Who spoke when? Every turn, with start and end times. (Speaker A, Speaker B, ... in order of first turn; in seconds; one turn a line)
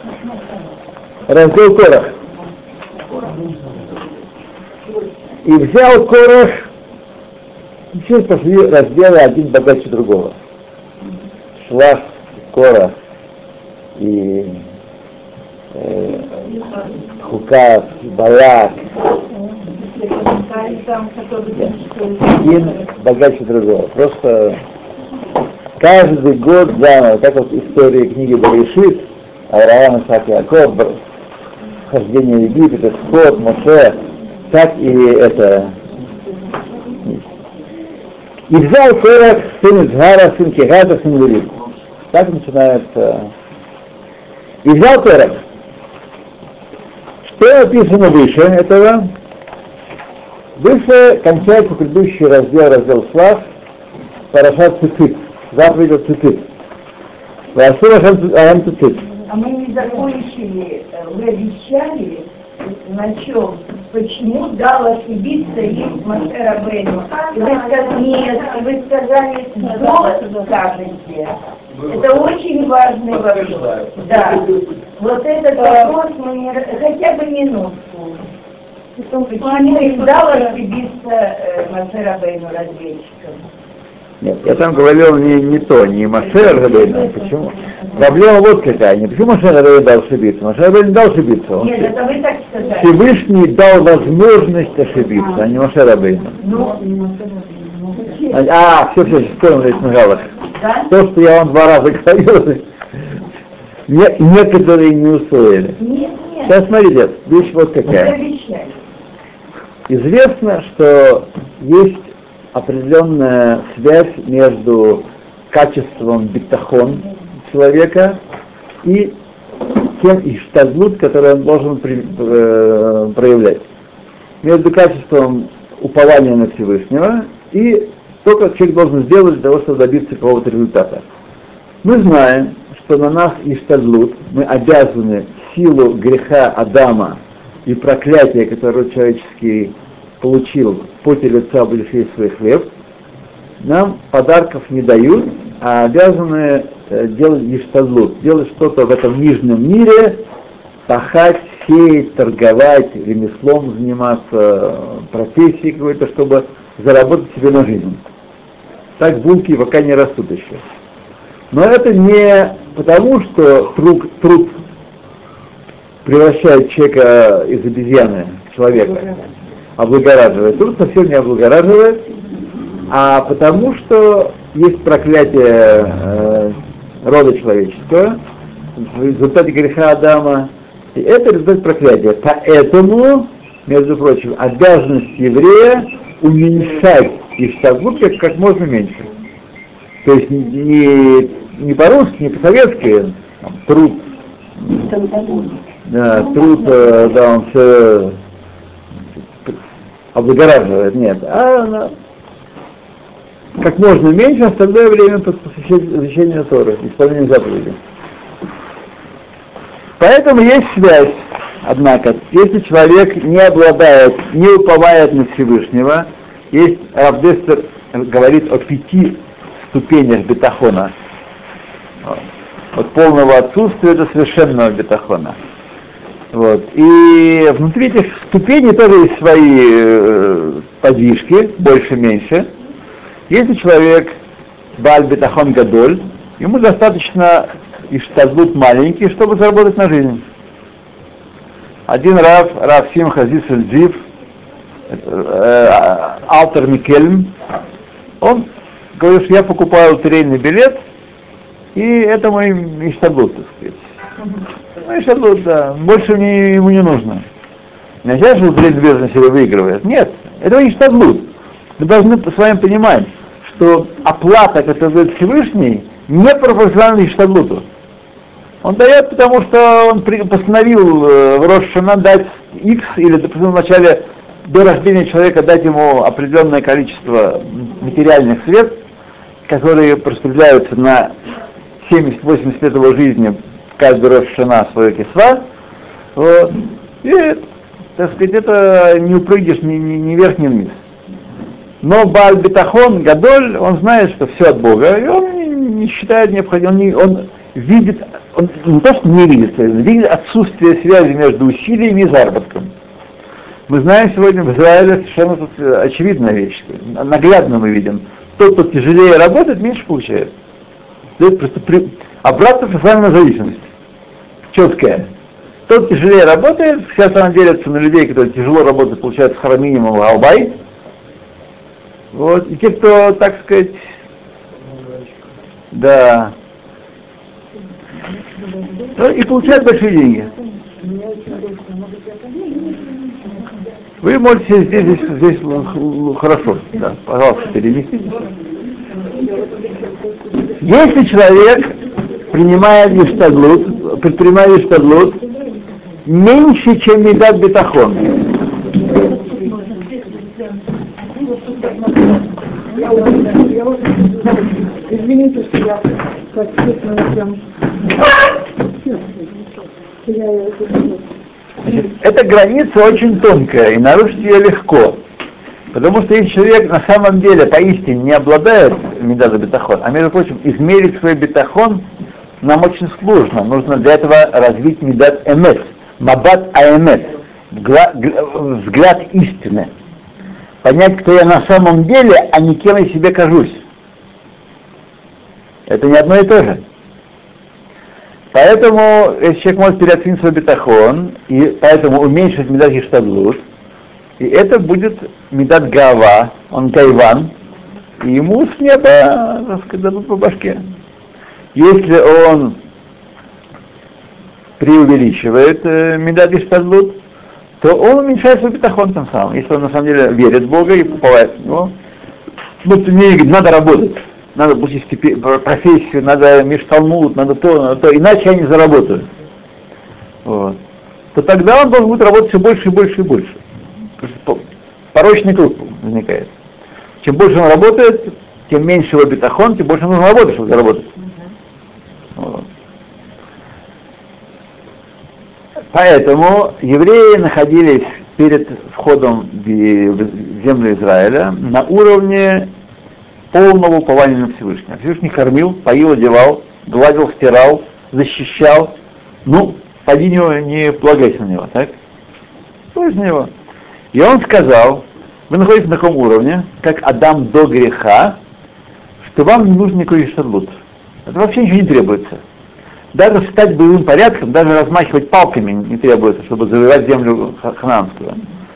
Speaker A: 1.3-2.1
Speaker A: 5.4-6.7
Speaker A: 7.9-10.3
Speaker A: 11.6-12.9
Speaker A: 14.0-14.6
Speaker A: 15.7-16.4
Speaker A: 17.2-18.9
Speaker B: 19.7-22.2
Speaker A: 22.2-24.6
Speaker A: 25.8-31.0
Speaker A: 31.9-34.0
Speaker A: 34.5-35.8
Speaker A: 38.5-41.5
Speaker A: 42.1-43.3
Speaker A: 44.6-45.4
Speaker A: 47.3-49.1
Speaker A: 50.5-53.4
Speaker A: 54.3-56.5
Speaker A: 57.5-59.0
Speaker C: 59.2-78.2
Speaker C: 79.0-83.4
Speaker B: 79.5-79.9
Speaker A: 84.2-91.9
Speaker C: 91.6-92.9
Speaker A: 92.7-96.4
Speaker C: 96.4-98.4
Speaker A: 98.3-100.3
Speaker C: 100.5-100.9
Speaker A: 100.9-102.6
Speaker A: 103.9-105.8
Speaker C: 105.8-106.5
Speaker A: 106.4-108.1
Speaker C: 107.9-108.8
Speaker A: 109.9-118.2
Speaker A: 118.8-119.1
Speaker A: 119.9-123.6
Speaker A: 124.4-131.0
Speaker A: 131.8-142.7
Speaker A: 143.6-150.2
Speaker A: 150.9-158.0
Speaker A: 159.0-160.6
Speaker A: 161.5-164.6
Speaker A: 166.0-169.2
Speaker A: 169.8-172.1
Speaker A: 172.9-178.2
Speaker A: 178.8-189.1
Speaker A: 190.0-194.1
Speaker B: 195.0-195.4
Speaker A: 195.9-198.2
Speaker A: 200.1-201.9
Speaker A: 203.6-207.8
Speaker A: 210.0-220.9
Speaker A: 222.7-225.4
Speaker A: 226.3-232.5
Speaker A: 233.3-234.1
Speaker A: 234.8-240.2
Speaker A: 241.9-244.0
Speaker A: 244.9-247.4
Speaker A: 248.2-250.8
Speaker A: 251.7-253.8
Speaker A: 254.8-257.2
Speaker A: 258.0-267.6
Speaker A: 268.6-278.8
Speaker A: 279.5-281.1
Speaker A: 281.8-285.4
Speaker A: 286.1-287.4
Speaker A: 288.0-290.8
Speaker A: 291.8-302.7
Speaker A: 303.7-310.3
Speaker A: 311.2-313.7
Speaker A: 314.5-315.1
Speaker A: 315.7-320.6
Speaker A: 322.1-323.8
Speaker A: 325.7-326.3
Speaker A: 328.9-330.3
Speaker B: 330.8-332.8
Speaker A: 334.0-338.2
Speaker B: 339.1-340.4
Speaker A: 340.6-341.8
Speaker A: 342.3-345.2
Speaker A: 346.1-348.2
Speaker B: 349.0-349.9
Speaker B: 351.3-357.5
Speaker B: 358.8-359.3
Speaker B: 360.0-361.0
Speaker A: 361.6-365.0
Speaker A: 365.7-371.9
Speaker A: 372.4-379.7
Speaker A: 380.6-383.6
Speaker A: 385.7-386.6
Speaker A: 388.3-393.4
Speaker A: 394.2-397.3
Speaker A: 398.0-400.6
Speaker A: 401.5-402.6
Speaker A: 404.6-407.0
Speaker A: 407.6-411.7
Speaker A: 412.6-419.1
Speaker A: 420.2-420.6
Speaker A: 421.1-423.4
Speaker A: 424.0-424.4
Speaker A: 424.9-426.3
Speaker A: 427.0-430.9
Speaker A: 432.1-432.4
Speaker A: 435.7-442.5
Speaker A: 443.3-451.7
Speaker A: 452.7-453.3
Speaker A: 453.9-458.2
Speaker A: 459.0-460.5
Speaker A: 461.1-462.2
Speaker A: 462.9-468.2